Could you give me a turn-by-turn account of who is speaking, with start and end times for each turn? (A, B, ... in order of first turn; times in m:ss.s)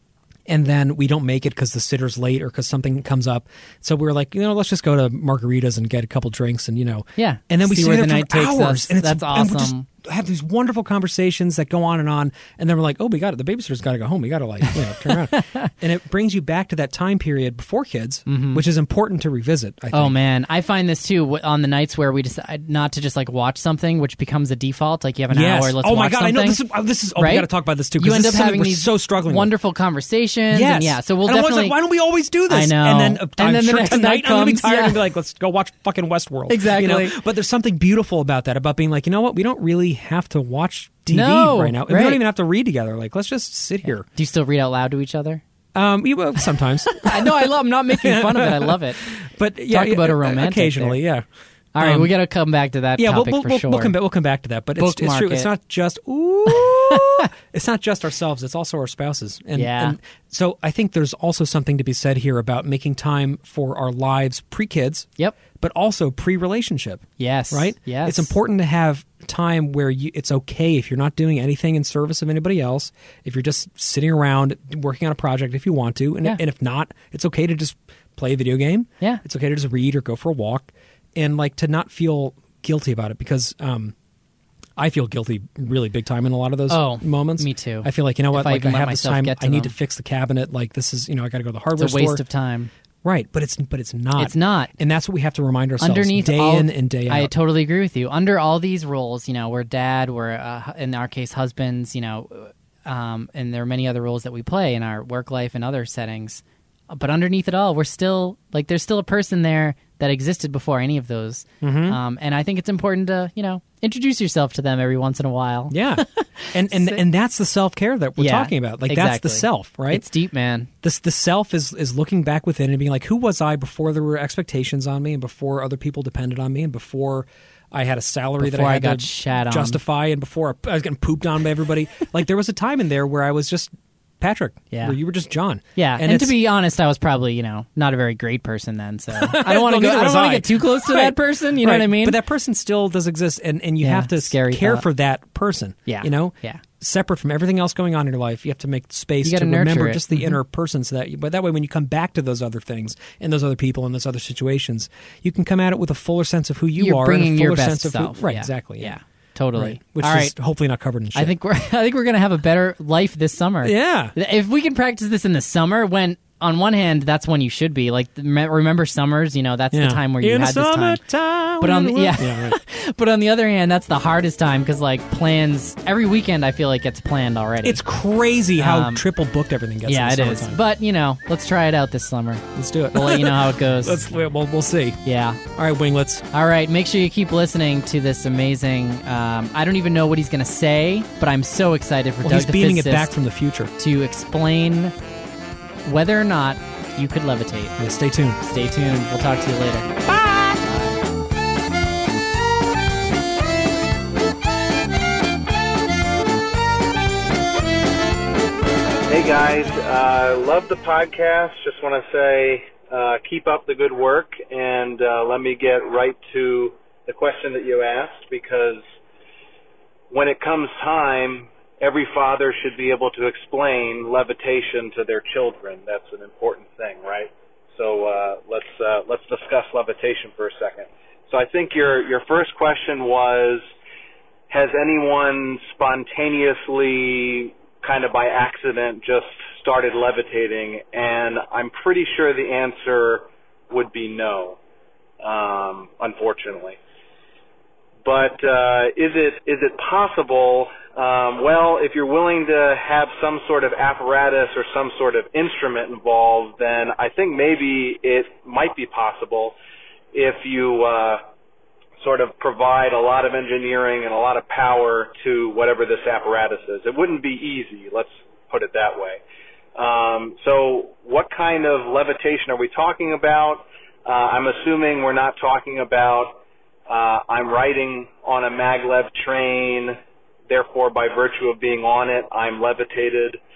0:00.5-0:20.1 A
0:07.2-0:09.9 B
0:14.9-0:15.7 B
0:18.3-0:18.6 B
0:19.9-0:26.6 B
0:25.3-0:29.5 A
0:27.2-0:31.8 B
0:30.5-0:44.0 A
0:32.5-0:35.0 B
0:36.5-0:37.2 B
0:41.1-0:42.2 B
0:43.9-0:45.4 B
0:45.7-0:51.2 A
0:46.6-0:49.1 B
0:49.7-0:51.0 B
0:51.7-0:53.9 B
0:51.8-0:52.1 A
0:53.0-1:23.9 A
0:54.8-0:55.5 B
0:56.5-0:57.3 B
0:59.5-1:00.0 B
1:07.2-1:08.3 B
1:24.8-1:32.2 A
1:26.7-1:29.7 B
1:31.8-1:32.7 B
1:33.0-1:37.3 A
1:34.2-1:34.7 B
1:35.8-1:57.0 B
1:51.6-1:52.0 A
1:55.7-2:00.0 A
1:58.2-2:00.7 B
2:00.8-2:16.3 A
2:08.4-2:09.8 B
2:14.7-2:15.0 B
2:15.8-2:22.2 B
2:19.1-2:38.9 A
2:23.8-2:24.8 B
2:25.8-2:26.6 B
2:29.2-2:30.4 B
2:36.8-2:40.3 B
2:39.6-2:41.3 A
2:41.1-2:51.0 B
2:43.6-2:44.1 A
2:49.7-2:52.6 A
2:51.6-2:57.8 B
2:57.6-3:00.6 A
2:58.6-2:59.0 B
2:59.8-3:04.0 B
3:02.5-3:06.2 A
3:05.0-3:05.4 B
3:06.3-3:13.1 B
3:12.2-3:13.7 A
3:13.8-3:14.9 B
3:15.8-3:17.7 B
3:17.8-3:18.4 A
3:18.4-3:19.9 B
3:20.0-3:20.7 A
3:29.1-3:38.8 C
3:40.1-3:53.6 C
3:54.5-4:04.6 C
4:05.2-4:06.8 C
4:08.0-4:19.5 C
4:20.1-4:21.2 C
4:22.0-4:29.2 C
4:29.7-4:40.0 C
4:40.5-4:43.4 C